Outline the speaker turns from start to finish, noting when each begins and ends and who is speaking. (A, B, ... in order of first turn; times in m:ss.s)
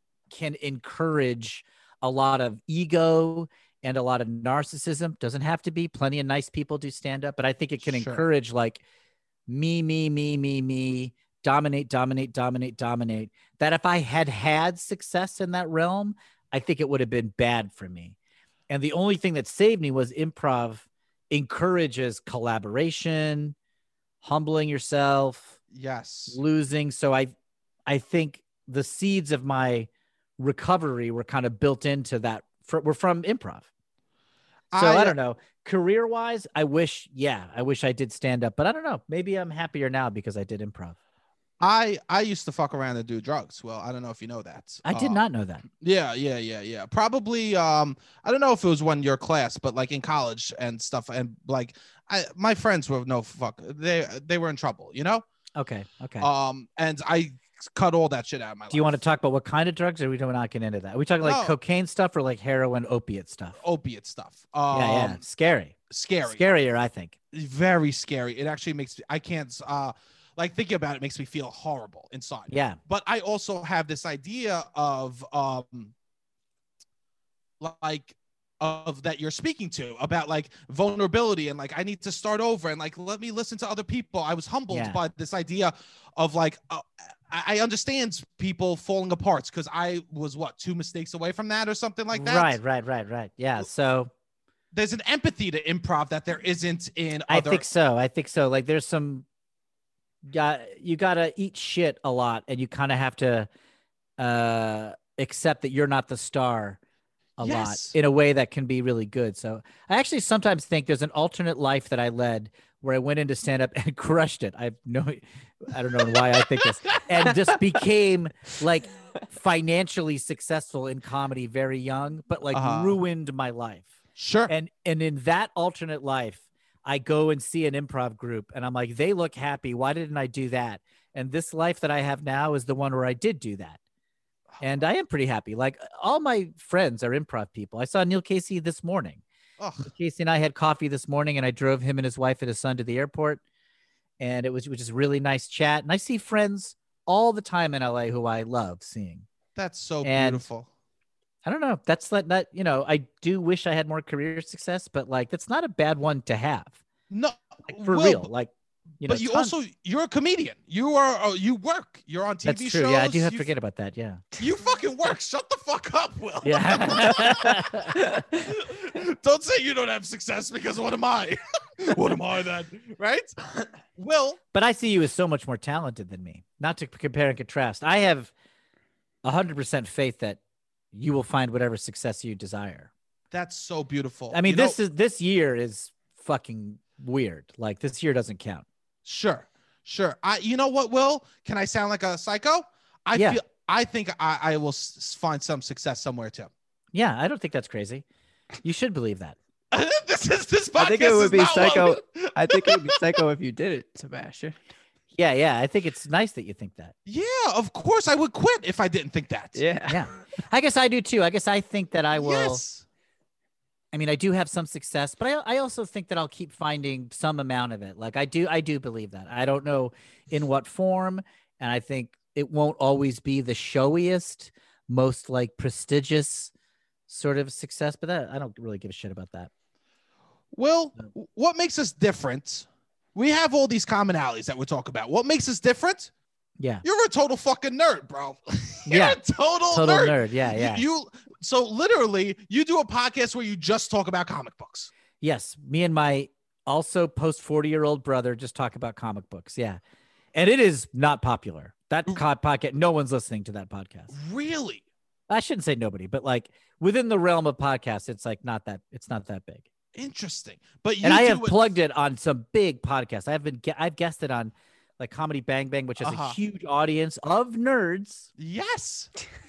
0:00.3-0:08.8 A
0:07.8-0:08.2 B
0:09.5-0:18.2 A
0:18.7-0:23.5 A
0:24.2-0:25.6 A
0:25.7-0:26.4 B
0:26.3-0:27.3 A
0:27.9-0:33.7 A
0:34.7-0:35.2 B
0:34.7-0:41.0 A
0:41.6-0:45.2 B
0:44.8-0:45.6 A
0:45.8-0:55.2 B
0:55.6-0:56.3 A
0:56.2-0:59.0 B
0:58.7-1:03.6 A
1:01.2-1:01.6 B
1:03.6-1:05.2 B
1:04.7-1:07.1 A
1:05.9-1:06.4 B
1:07.3-1:15.9 B
1:12.5-1:12.8 A
1:17.6-1:32.6 B
1:24.7-1:25.0 A
1:32.1-1:34.1 A
1:34.7-1:37.6 B
1:37.3-1:39.2 A
1:40.3-1:43.5 A
1:44.2-1:46.8 A
1:47.4-2:03.9 A
1:47.4-1:47.9 B
2:02.5-2:03.0 B
2:04.2-2:04.5 B
2:04.5-2:13.8 A
2:14.6-2:19.2 A
2:19.6-2:19.9 B
2:19.8-2:23.4 A
2:24.2-2:29.2 A
2:29.6-2:30.7 B
2:30.0-2:30.4 A
2:31.4-2:36.8 A
2:37.1-2:38.3 B
2:37.7-2:39.5 A
2:39.0-2:43.5 B
2:42.4-2:44.3 A
2:44.4-2:47.6 B
2:46.4-2:48.0 A
2:48.3-2:53.3 B
2:54.0-2:54.4 B
2:54.5-2:58.3 A
2:59.2-3:00.4 A
3:00.9-3:02.9 A
3:03.3-3:04.8 B
3:04.3-3:08.6 A
3:09.0-3:16.5 B
3:13.1-3:13.4 A
3:16.9-3:18.0 A
3:18.6-3:19.4 A
3:19.7-3:22.9 B
3:20.8-3:24.6 C
3:25.1-3:26.9 A
3:27.0-3:29.6 B
3:29.5-3:30.1 C
3:29.9-3:32.6 A
3:32.1-3:32.8 B
3:33.9-3:46.5 A
3:47.1-3:49.5 A
3:50.5-3:56.1 B
3:56.8-4:04.9 B
3:58.9-4:00.8 A
4:05.2-4:09.8 A
4:10.3-4:14.1 A
4:14.1-4:14.8 B
4:15.3-4:19.7 A
4:19.9-4:21.6 B
4:21.0-4:28.3 A
4:26.0-4:26.4 B
4:28.4-4:29.1 B